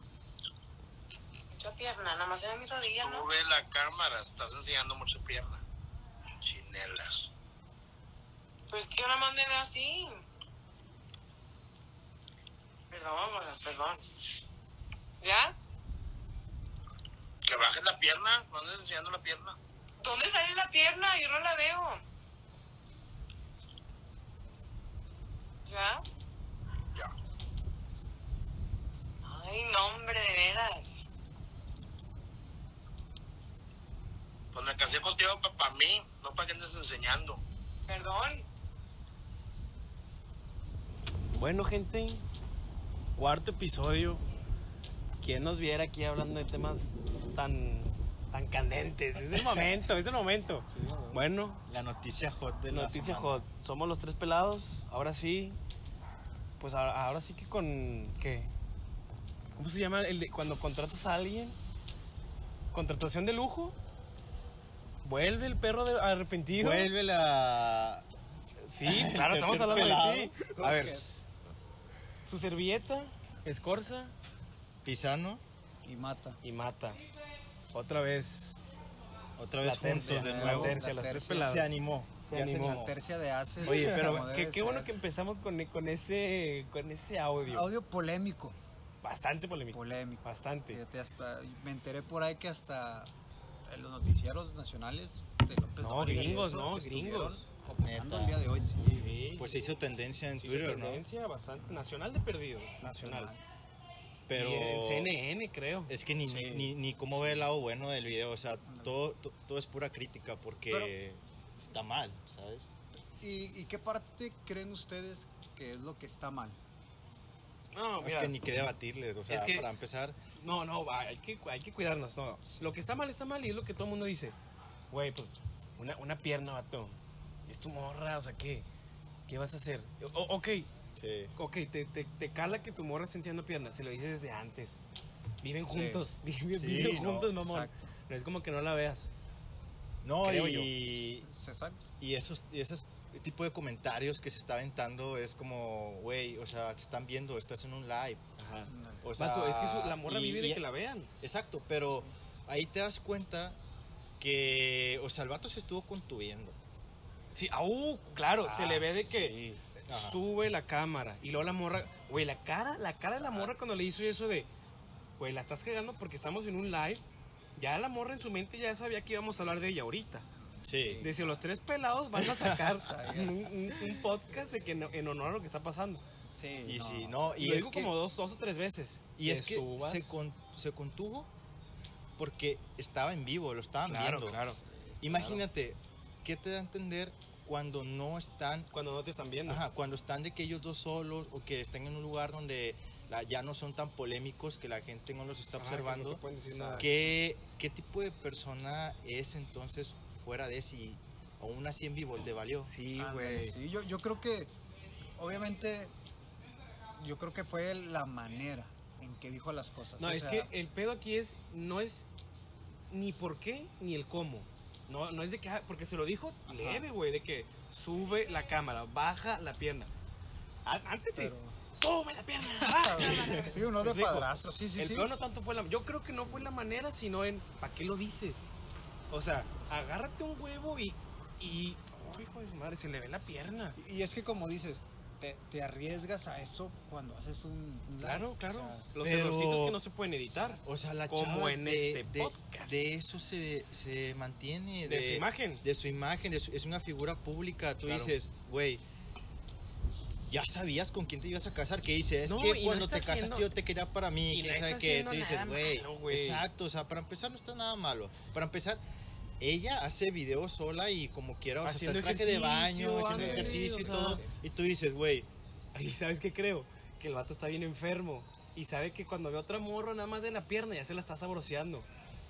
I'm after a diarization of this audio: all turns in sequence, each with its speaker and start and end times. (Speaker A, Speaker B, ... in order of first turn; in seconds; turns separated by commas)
Speaker A: 1.5-3.3, Speaker B: 3.0-5.6, Speaker B: 6.4-7.3, Speaker A: 8.7-10.2, Speaker A: 12.9-14.0, Speaker A: 15.2-15.5, Speaker B: 17.4-19.6, Speaker A: 20.0-22.0, Speaker A: 25.7-26.0, Speaker A: 29.2-31.1, Speaker B: 34.5-37.4, Speaker A: 37.9-38.4, Speaker C: 41.3-42.2, Speaker C: 43.2-44.2, Speaker C: 45.2-51.6, Speaker D: 50.7-51.2, Speaker E: 51.7-53.4, Speaker C: 52.7-55.6, Speaker C: 56.6-58.5, Speaker C: 59.5-61.6, Speaker C: 62.7-63.8, Speaker C: 65.0-66.9, Speaker E: 66.5-68.1, Speaker C: 68.7-71.0, Speaker E: 68.8-70.8, Speaker D: 70.5-71.1, Speaker C: 72.2-74.1, Speaker E: 74.8-75.4, Speaker D: 75.8-76.4, Speaker C: 76.4-77.0, Speaker C: 77.7-78.6, Speaker E: 79.4-82.9, Speaker C: 79.6-81.7, Speaker D: 79.9-81.6, Speaker C: 82.2-82.8, Speaker D: 82.5-84.9, Speaker C: 83.6-87.7, Speaker E: 83.7-84.0, Speaker D: 87.5-88.6, Speaker C: 89.0-90.8, Speaker D: 89.7-93.1, Speaker D: 93.7-99.2, Speaker C: 95.8-97.4, Speaker E: 97.8-98.4, Speaker C: 98.9-99.7, Speaker E: 99.4-101.0, Speaker C: 100.4-103.3, Speaker D: 102.8-103.4, Speaker E: 104.3-105.1, Speaker C: 104.3-105.9, Speaker E: 105.9-112.7, Speaker D: 106.2-107.5, Speaker D: 108.7-108.9, Speaker D: 113.2-116.6, Speaker C: 117.7-118.3, Speaker E: 118.0-120.2, Speaker C: 119.3-119.7, Speaker C: 120.3-124.3, Speaker D: 122.4-122.8, Speaker C: 124.9-128.7, Speaker C: 129.3-130.7, Speaker E: 130.9-131.3, Speaker C: 131.3-134.8, Speaker C: 135.4-139.1, Speaker D: 135.7-136.0, Speaker E: 136.5-137.3, Speaker D: 137.3-137.9, Speaker E: 140.0-141.3, Speaker C: 140.2-140.7, Speaker D: 141.0-141.8, Speaker E: 142.0-148.4, Speaker C: 148.4-151.1, Speaker D: 148.7-149.0, Speaker E: 149.0-150.6, Speaker E: 151.2-153.6, Speaker E: 154.2-156.6, Speaker C: 157.3-164.5, Speaker D: 158.4-159.6, Speaker E: 159.9-160.2, Speaker D: 163.1-163.5, Speaker C: 165.2-167.0, Speaker C: 167.6-170.2, Speaker E: 170.6-171.0, Speaker D: 170.7-171.3, Speaker C: 171.0-176.0, Speaker E: 172.2-172.6, Speaker D: 172.5-173.5, Speaker D: 176.3-177.5, Speaker E: 176.6-177.9, Speaker C: 177.4-180.2, Speaker E: 179.2-181.3, Speaker E: 182.2-188.7, Speaker C: 183.9-185.4, Speaker C: 188.7-189.6, Speaker E: 189.4-196.2, Speaker C: 195.6-196.9, Speaker D: 196.4-196.9, Speaker E: 196.8-202.7, Speaker C: 202.7-203.5, Speaker D: 202.9-204.5, Speaker D: 205.2-205.9, Speaker D: 207.0-210.5, Speaker C: 210.0-212.1, Speaker C: 212.9-219.9, Speaker D: 216.5-216.8, Speaker C: 220.6-228.5, Speaker D: 221.2-221.6, Speaker D: 222.4-225.1, Speaker D: 226.1-226.5, Speaker C: 229.1-233.8, Speaker D: 229.6-229.8, Speaker D: 233.8-238.9, Speaker C: 238.0-242.8, Speaker E: 239.0-239.8, Speaker D: 240.3-240.6, Speaker E: 240.6-248.8, Speaker C: 244.8-245.6, Speaker C: 247.8-248.2, Speaker E: 250.3-258.8, Speaker C: 252.2-253.5, Speaker C: 254.3-256.4, Speaker E: 259.4-265.3, Speaker C: 261.6-264.2, Speaker D: 263.0-264.3, Speaker C: 265.7-271.9